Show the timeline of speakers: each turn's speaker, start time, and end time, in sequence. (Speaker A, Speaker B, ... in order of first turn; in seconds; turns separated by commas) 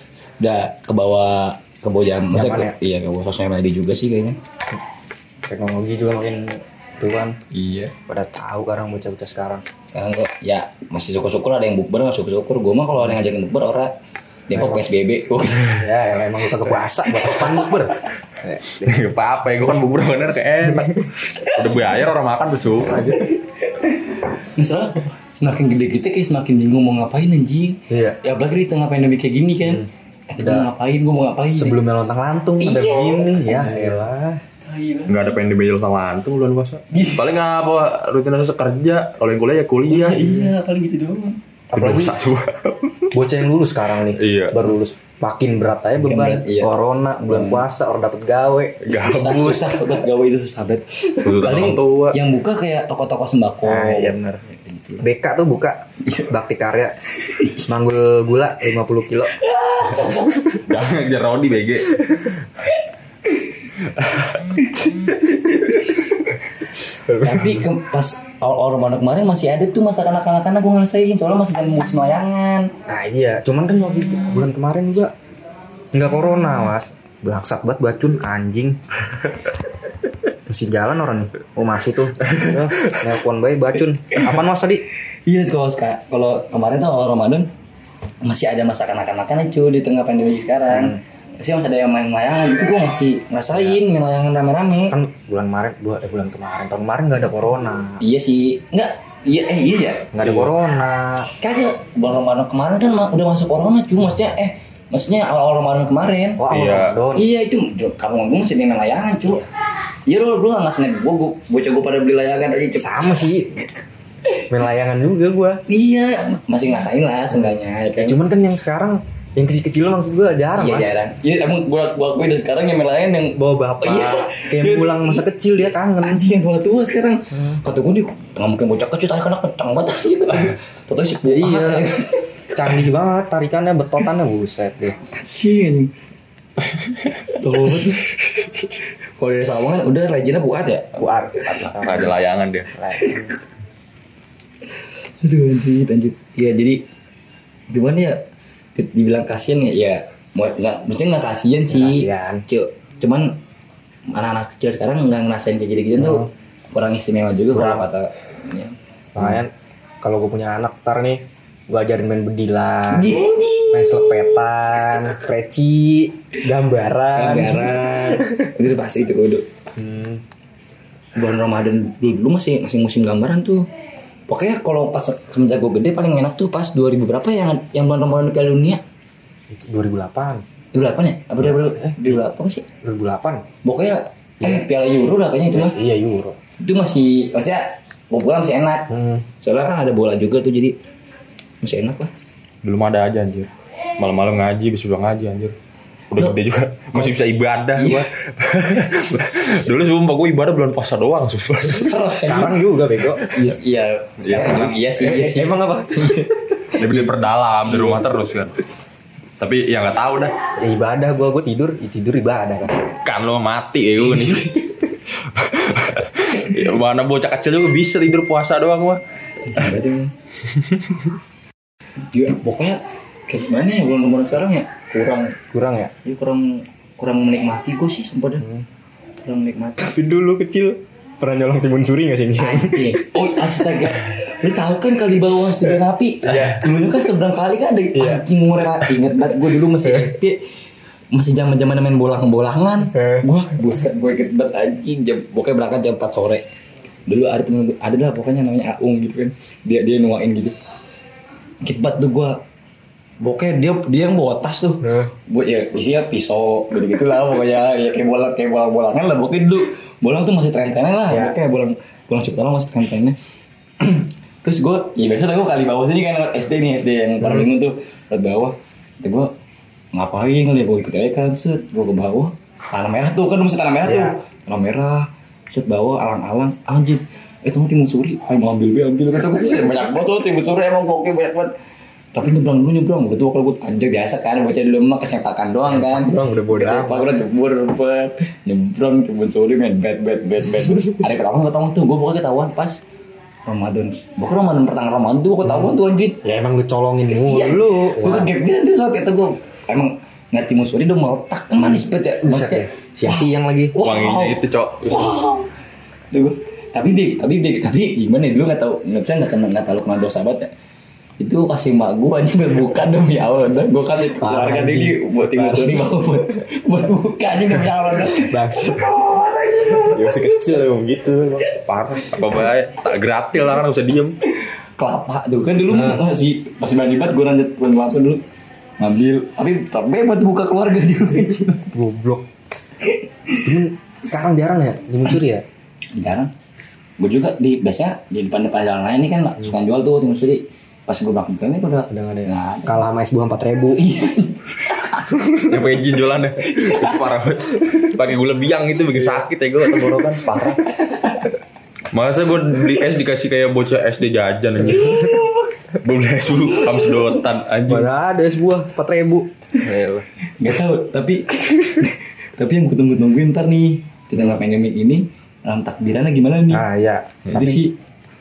Speaker A: 0.4-4.4, Speaker B: 2.3-2.7, Speaker B: 5.5-7.3, Speaker A: 7.5-7.9, Speaker B: 8.1-9.6, Speaker A: 9.9-13.9, Speaker A: 14.5-15.8, Speaker B: 14.5-14.8, Speaker B: 15.6-19.0, Speaker A: 17.1-17.8, Speaker C: 18.8-23.2, Speaker A: 23.2-31.8, Speaker B: 27.9-28.2, Speaker B: 30.4-30.7, Speaker B: 31.6-34.4, Speaker A: 32.6-34.0, Speaker A: 34.6-35.3, Speaker C: 35.1-40.3, Speaker A: 36.9-37.2, Speaker A: 39.9-41.4, Speaker B: 40.2-40.5, Speaker B: 41.7-42.2, Speaker C: 41.7-43.1, Speaker B: 43.1-48.8, Speaker C: 44.1-44.6, Speaker A: 46.0-47.6, Speaker C: 48.8-49.8, Speaker A: 48.9-55.0, Speaker C: 51.2-52.2, Speaker B: 53.6-54.4, Speaker B: 55.0-57.0, Speaker A: 56.0-56.3, Speaker A: 57.2-57.6, Speaker B: 57.5-59.3, Speaker A: 59.3-60.6, Speaker C: 60.6-62.0, Speaker A: 64.6-64.8, Speaker B: 67.1-67.6, Speaker A: 67.1-72.7, Speaker B: 72.9-75.1, Speaker B: 75.9-78.8, Speaker B: 80.5-84.8, Speaker A: 85.2-87.5, Speaker A: 88.2-95.0, Speaker B: 90.7-91.0, Speaker B: 93.5-93.8, Speaker B: 94.9-98.0, Speaker A: 98.0-100.1, Speaker B: 100.1-101.3, Speaker C: 100.2-100.5, Speaker A: 101.4-106.5, Speaker B: 106.4-107.3, Speaker C: 106.5-107.0, Speaker A: 107.1-109.5, Speaker A: 110.1-113.2, Speaker B: 112.8-113.7, Speaker B: 114.5-115.6, Speaker A: 115.7-118.2, Speaker B: 117.3-121.0, Speaker A: 120.6-125.2, Speaker B: 123.3-126.2, Speaker A: 126.0-132.8, Speaker B: 131.2-131.9, Speaker B: 132.5-135.0, Speaker A: 135.1-135.9, Speaker A: 137.3-138.1, Speaker A: 139.2-141.7, Speaker B: 140.9-142.1, Speaker C: 141.7-142.7, Speaker B: 142.7-143.3, Speaker A: 142.9-143.3, Speaker A: 145.2-146.8, Speaker A: 147.7-148.2, Speaker A: 148.7-153.3, Speaker B: 151.7-152.4, Speaker A: 154.1-158.7, Speaker B: 156.0-156.3, Speaker B: 157.5-157.9, Speaker B: 159.1-168.5, Speaker A: 162.9-164.3, Speaker A: 167.1-169.4, Speaker B: 169.8-170.2, Speaker A: 171.1-173.7, Speaker A: 174.3-178.8, Speaker B: 179.5-180.4, Speaker A: 180.7-182.7, Speaker B: 181.4-182.2, Speaker B: 182.8-183.4, Speaker A: 183.6-185.8, Speaker B: 184.4-184.7, Speaker B: 185.5-186.4, Speaker A: 186.6-190.8, Speaker B: 188.9-189.2, Speaker A: 191.6-192.1, Speaker C: 192.6-195.5, Speaker C: 196.1-202.0, Speaker A: 197.8-198.1, Speaker A: 201.7-202.6, Speaker B: 202.3-203.2, Speaker A: 203.2-207.1, Speaker C: 204.2-204.7, Speaker B: 204.3-206.6, Speaker C: 206.8-208.6, Speaker C: 209.4-210.3, Speaker B: 210.6-212.8, Speaker C: 213.0-219.0, Speaker A: 219.4-220.1, Speaker C: 220.5-221.0, Speaker A: 222.1-225.4, Speaker B: 225.5-225.9, Speaker A: 226.0-228.5, Speaker B: 228.4-228.7, Speaker A: 229.2-229.9, Speaker B: 229.8-233.2, Speaker A: 232.4-240.4, Speaker B: 236.2-236.7, Speaker B: 237.9-238.2, Speaker B: 239.8-240.1, Speaker A: 241.1-246.4, Speaker B: 242.9-243.2, Speaker A: 247.1-250.6, Speaker A: 251.6-252.4, Speaker A: 253.2-263.1, Speaker B: 254.8-255.1, Speaker B: 261.1-261.4, Speaker A: 263.8-269.3, Speaker A: 269.9-281.5, Speaker B: 273.9-274.1, Speaker A: 282.1-292.8, Speaker B: 285.6-287.1, Speaker A: 293.4-296.2, Speaker B: 295.4-298.3, Speaker A: 297.2-305.5, Speaker B: 302.2-303.7, Speaker C: 303.8-305.2, Speaker A: 306.1-310.5, Speaker A: 311.2-320.6, Speaker B: 314.2-315.9, Speaker B: 318.0-319.0, Speaker B: 319.8-321.4, Speaker C: 321.4-324.1, Speaker A: 324.4-328.2, Speaker B: 325.7-326.0, Speaker A: 328.8-331.7, Speaker B: 331.7-332.2, Speaker A: 332.8-333.4, Speaker B: 333.4-335.4, Speaker A: 335.9-336.3, Speaker A: 337.0-342.8, Speaker B: 341.9-343.9, Speaker A: 343.8-345.2, Speaker B: 345.1-345.5, Speaker C: 345.4-350.7, Speaker A: 346.4-347.0, Speaker B: 349.0-349.2, Speaker A: 350.6-351.3, Speaker C: 351.9-355.2, Speaker A: 354.6-355.6, Speaker C: 355.8-357.9, Speaker A: 356.5-357.1, Speaker B: 357.7-360.0, Speaker A: 360.4-366.6, Speaker B: 366.5-367.7, Speaker A: 367.3-367.7